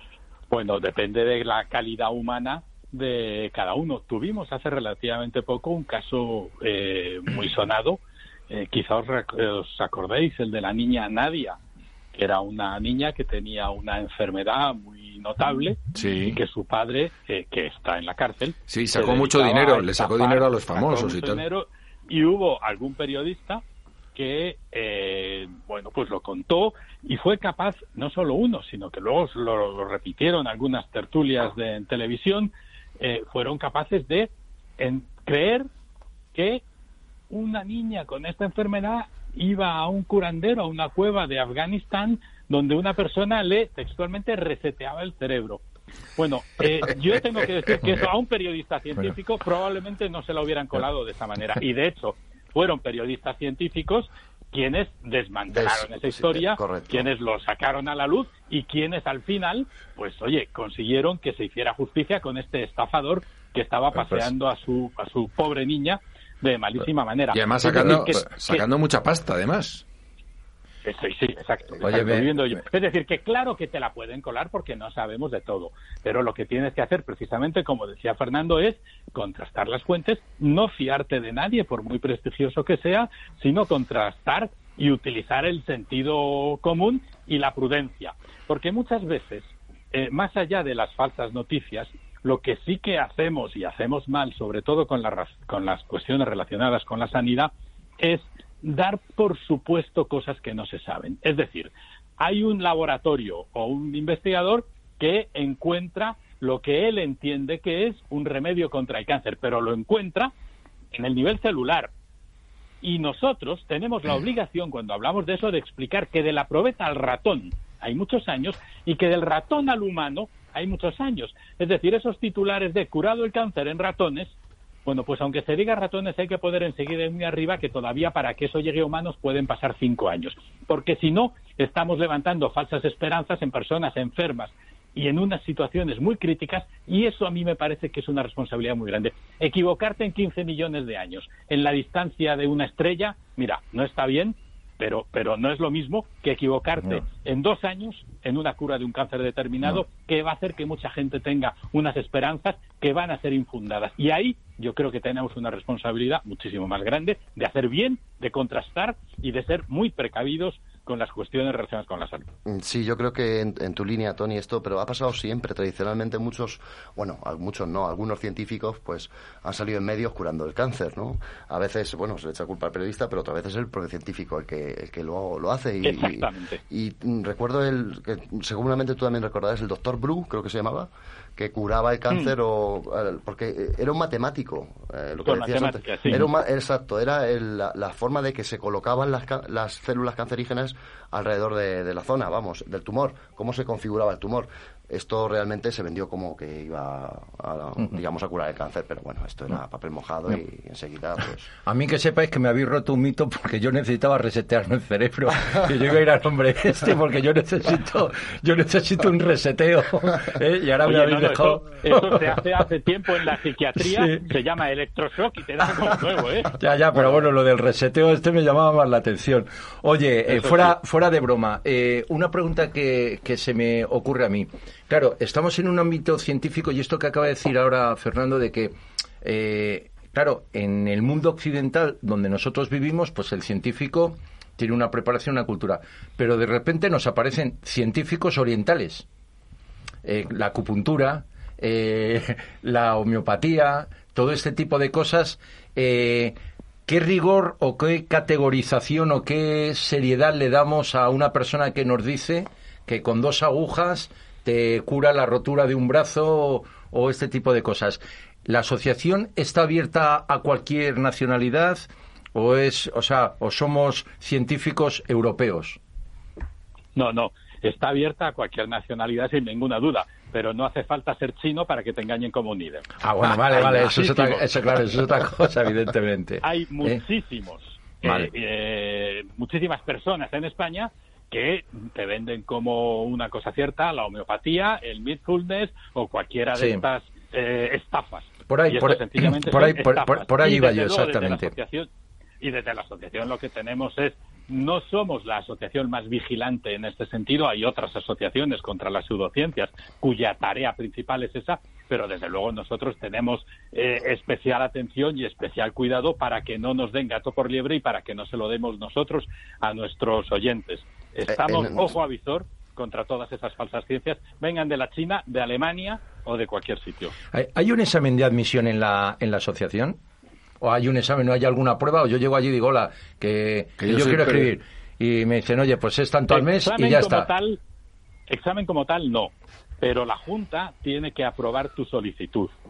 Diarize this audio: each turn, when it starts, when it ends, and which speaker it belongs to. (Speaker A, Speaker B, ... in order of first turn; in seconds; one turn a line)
Speaker A: 0.5-11.6
Speaker A: 12.1-23.6
Speaker B: 15.9-16.4
Speaker B: 18.7-21.4
Speaker A: 24.1-35.7
Speaker A: 36.3-36.6
Speaker A: 37.3-45.6
Speaker A: 46.2-68.7
Speaker C: 55.5-57.1
Speaker B: 67.3-69.8
Speaker A: 70.8-110.3
Speaker D: 71.8-72.5
Speaker A: 110.9-111.9
Speaker A: 112.8-124.3
Speaker A: 124.9-162.3
Speaker C: 162.5-201.5
Speaker A: 175.8-176.6
Speaker A: 185.2-186.2
Speaker D: 201.7-212.4
Speaker A: 210.8-216.6
Speaker D: 213.8-214.3
Speaker D: 216.5-239.1
Speaker A: 220.3-220.7
Speaker D: 240.0-246.4
Speaker D: 246.9-265.8
Speaker A: 266.9-274.5
Speaker D: 273.0-277.0
Speaker A: 276.4-291.9
Speaker D: 278.0-278.3
Speaker D: 286.6-286.8
Speaker D: 288.5-291.5
Speaker A: 292.4-317.2
Speaker C: 311.4-311.8
Speaker D: 317.3-320.0
Speaker D: 320.6-327.3
Speaker B: 323.8-324.5
Speaker A: 326.3-327.6
Speaker A: 328.3-332.5